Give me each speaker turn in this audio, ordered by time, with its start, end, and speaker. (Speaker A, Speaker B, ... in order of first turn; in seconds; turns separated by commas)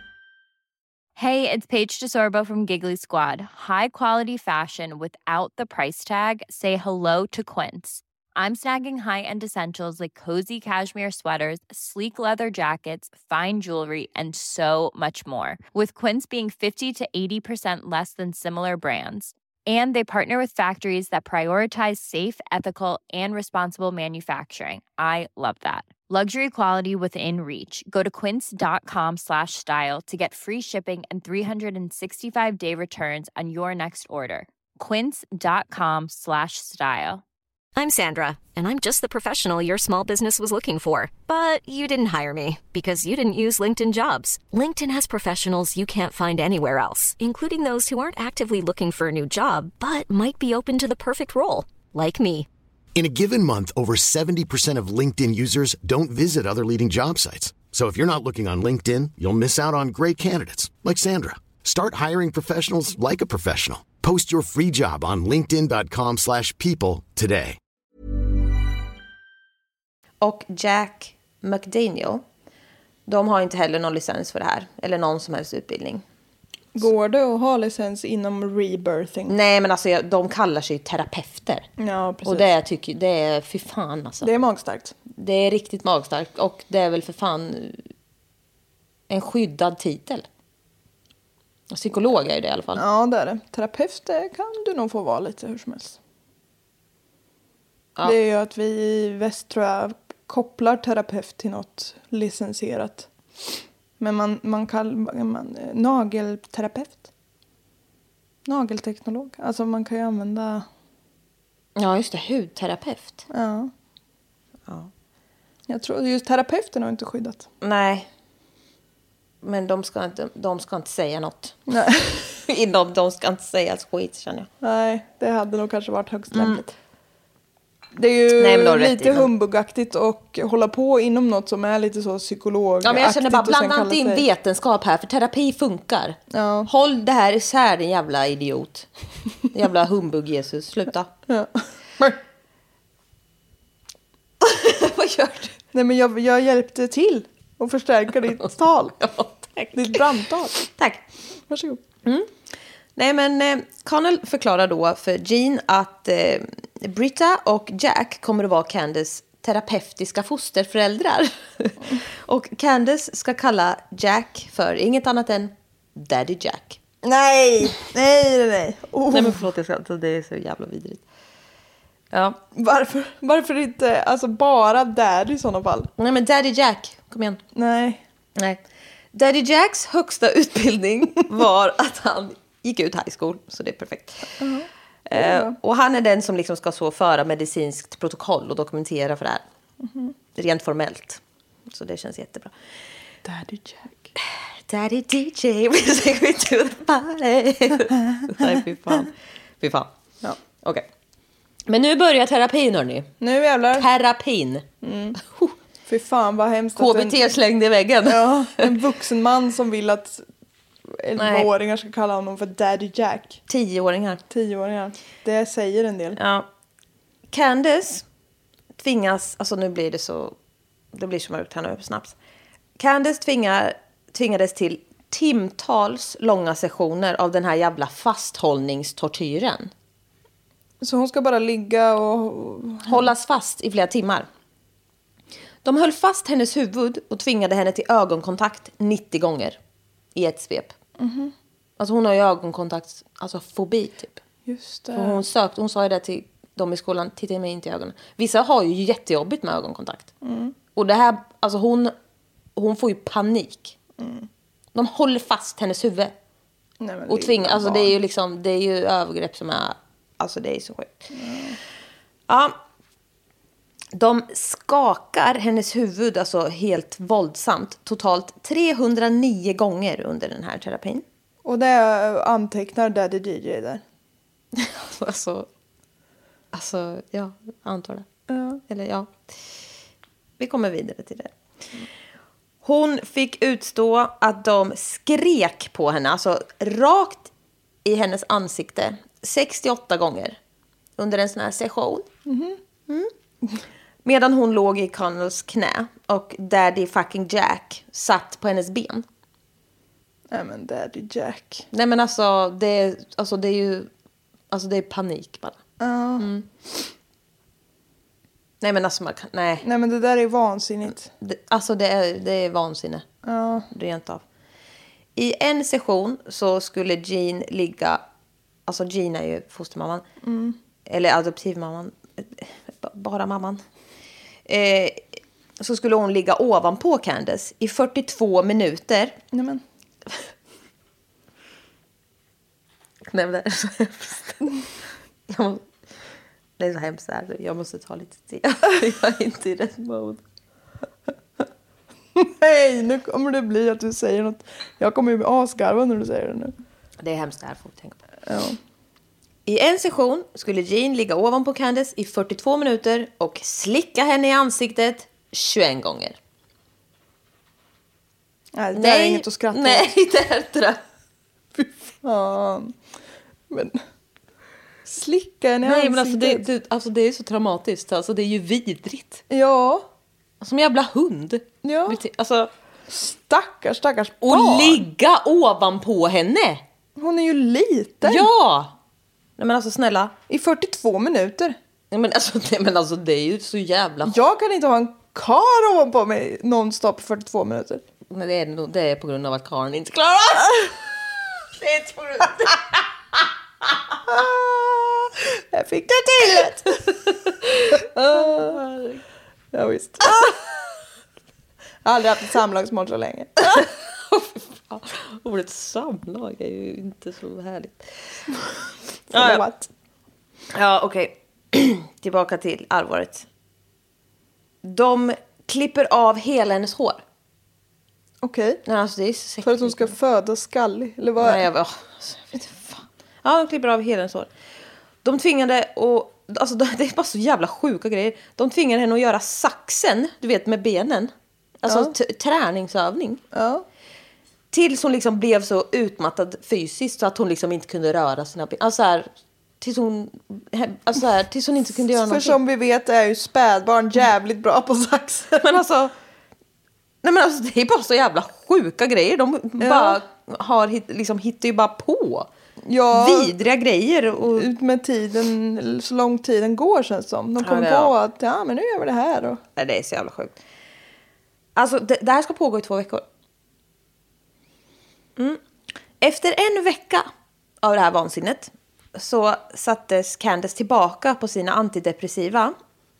Speaker A: 1.1-37.2, Speaker B: 37.8-52.5, Speaker C: 52.9-67.6, Speaker D: 70.2-72.2, Speaker D: 73.1-76.0, Speaker E: 76.7-79.3, Speaker D: 79.3-81.7, Speaker E: 81.8-82.5, Speaker D: 82.2-84.3, Speaker E: 84.2-84.9, Speaker D: 85.1-87.8, Speaker D: 89.1-90.2, Speaker D: 91.7-92.8, Speaker E: 92.8-96.0, Speaker E: 98.0-103.1, Speaker E: 104.0-107.1, Speaker E: 108.4-110.7, Speaker D: 111.8-113.2, Speaker E: 113.3-113.7, Speaker E: 115.7-117.5, Speaker D: 117.6-118.1, Speaker D: 119.4-121.6, Speaker E: 121.7-122.2, Speaker D: 122.5-124.5, Speaker E: 124.6-126.7, Speaker D: 126.3-126.6, Speaker E: 127.9-134.2, Speaker D: 128.3-129.3, Speaker D: 132.8-138.9, Speaker E: 136.3-136.7, Speaker D: 139.5-141.1, Speaker E: 141.3-142.2, Speaker D: 144.4-145.6, Speaker E: 145.7-149.0, Speaker D: 149.0-151.0, Speaker E: 149.7-150.6, Speaker E: 151.5-151.8, Speaker D: 152.0-152.3, Speaker D: 153.0-166.8, Speaker E: 167.0-169.4, Speaker D: 169.1-171.0, Speaker D: 172.1-172.4, Speaker E: 172.5-175.9, Speaker D: 176.0-177.4, Speaker E: 177.5-178.0, Speaker D: 178.3-178.6, Speaker D: 179.1-184.4, Speaker E: 184.4-185.6, Speaker D: 185.1-189.4, Speaker E: 189.8-190.1, Speaker D: 190.3-192.5, Speaker E: 193.2-194.1, Speaker D: 194.2-199.9, Speaker D: 200.6-200.9, Speaker D: 201.7-203.1, Speaker E: 203.2-203.9, Speaker D: 203.7-204.7, Speaker E: 204.8-205.2, Speaker D: 205.2-205.5, Speaker E: 205.9-207.2, Speaker D: 206.8-208.8, Speaker E: 208.0-210.2, Speaker E: 210.9-213.4, Speaker D: 211.2-211.5, Speaker D: 213.5-214.2, Speaker E: 214.3-216.2, Speaker D: 216.1-216.5, Speaker D: 217.3-218.0, Speaker D: 218.8-220.3, Speaker D: 220.9-222.1, Speaker D: 222.8-229.7, Speaker E: 230.8-233.0, Speaker D: 232.9-234.3, Speaker D: 235.6-239.6, Speaker D: 240.1-240.8, Speaker E: 241.0-241.3, Speaker D: 241.8-244.2, Speaker E: 244.5-245.2, Speaker D: 244.9-250.1, Speaker E: 250.2-250.6, Speaker D: 250.8-251.9, Speaker D: 252.6-253.8, Speaker E: 254.0-254.3, Speaker D: 254.7-256.1, Speaker E: 256.8-257.9, Speaker D: 257.1-261.1, Speaker E: 261.1-261.6, Speaker D: 262.3-262.6, Speaker D: 263.9-271.0, Speaker E: 271.4-273.8, Speaker D: 274.5-275.5, Speaker D: 276.5-278.1, Speaker E: 278.3-278.6, Speaker D: 278.7-279.1, Speaker D: 280.4-281.3, Speaker D: 282.6-287.3, Speaker D: 287.9-290.4, Speaker D: 291.0-292.1, Speaker E: 292.3-292.6, Speaker D: 294.0-299.0, Speaker E: 300.3-301.6, Speaker D: 301.7-303.9, Speaker D: 304.5-305.6, Speaker E: 305.8-306.3, Speaker D: 306.2-306.5, Speaker D: 308.6-309.6, Speaker E: 309.6-311.1, Speaker D: 311.2-313.0, Speaker E: 313.2-313.7, Speaker D: 313.7-314.2, Speaker D: 315.1-318.0, Speaker D: 318.7-320.0, Speaker E: 320.2-320.6, Speaker D: 320.9-323.6, Speaker D: 324.5-325.0, Speaker D: 325.6-329.1, Speaker E: 329.3-329.6, Speaker D: 333.0-334.4, Speaker D: 335.3-335.7, Speaker D: 336.6-340.2, Speaker E: 342.1-346.5, Speaker D: 347.0-348.0, Speaker E: 348.3-348.6, Speaker D: 349.5-356.2, Speaker E: 358.5-359.9, Speaker D: 358.7-360.8, Speaker E: 361.6-362.8, Speaker E: 363.5-363.8, Speaker E: 364.9-366.5, Speaker D: 365.6-369.2, Speaker E: 369.3-369.9, Speaker D: 370.4-372.5, Speaker E: 371.6-372.0, Speaker E: 372.9-374.8, Speaker D: 374.2-376.6, Speaker E: 377.0-378.3, Speaker D: 378.0-378.7, Speaker D: 379.4-380.1, Speaker E: 380.3-381.6, Speaker D: 381.9-384.2, Speaker E: 384.0-387.8, Speaker D: 388.1-390.9, Speaker D: 391.5-392.8, Speaker E: 394.1-396.8, Speaker E: 397.6-398.6, Speaker D: 397.7-399.0, Speaker E: 399.5-400.4, Speaker E: 401.9-403.6, Speaker D: 403.5-408.2, Speaker D: 409.1-409.5, Speaker E: 409.1-409.7, Speaker D: 410.5-413.3, Speaker D: 414.6-417.0, Speaker E: 418.2-418.6, Speaker D: 418.6-419.9, Speaker E: 419.4-421.4, Speaker D: 421.2-424.3, Speaker D: 425.0-433.2, Speaker E: 431.7-431.9, Speaker E: 433.3-433.6, Speaker D: 434.5-439.1, Speaker D: 439.6-442.4, Speaker E: 442.0-445.5, Speaker D: 445.4-445.9, Speaker D: 447.0-452.3, Speaker E: 449.6-450.0, Speaker E: 452.6-453.4, Speaker D: 452.9-454.5, Speaker E: 454.2-459.4, Speaker D: 457.4-457.9, Speaker D: 459.6-460.4, Speaker D: 461.6-463.0, Speaker D: 466.0-467.1, Speaker D: 467.6-472.6